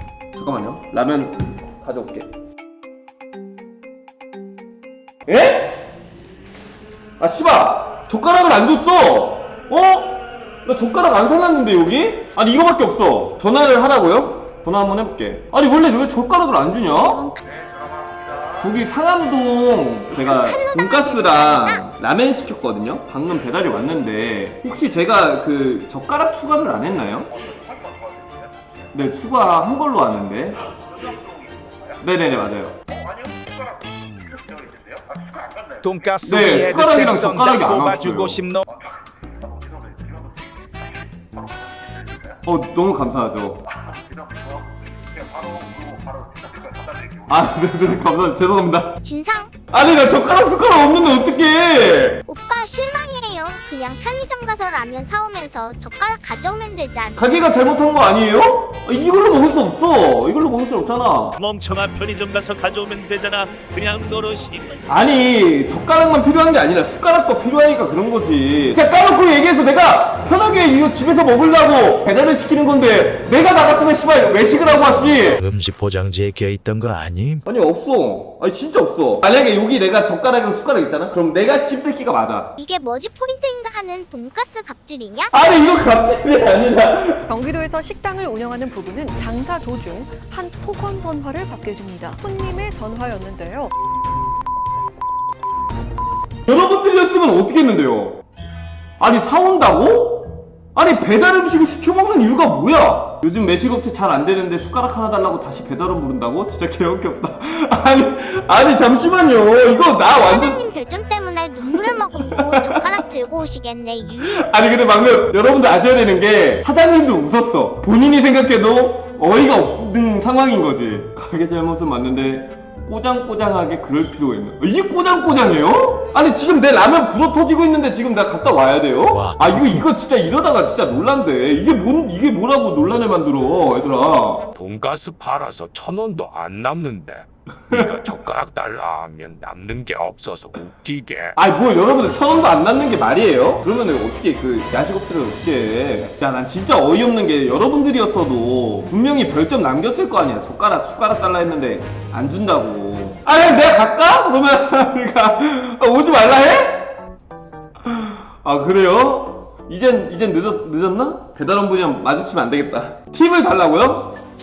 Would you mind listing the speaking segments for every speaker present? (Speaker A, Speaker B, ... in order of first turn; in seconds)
Speaker A: 0.3-2.3, 5.3-5.8, 7.2-17.3, 18.6-27.3, 28.9-30.6, 32.0-32.8, 36.2-38.5, 42.4-43.6, 47.3-49.0, 49.7-52.2, 57.1-61.4, 64.9-75.4, 77.5-82.5, 85.3-87.3, 96.5-98.2, 99.0-110.6, 111.7-113.0, 114.3-134.4, 141.3-156.9, 157.8-164.2
Speaker B: 17.0-17.4, 20.1-21.8, 49.0-49.5, 52.3-57.2, 82.6-85.3, 110.1-114.4
Speaker C: 35.8-38.6
Speaker D: 61.4-64.8
Speaker E: 75.4-77.4, 129.1-129.8
Speaker F: 87.3-93.7
Speaker G: 134.5-141.3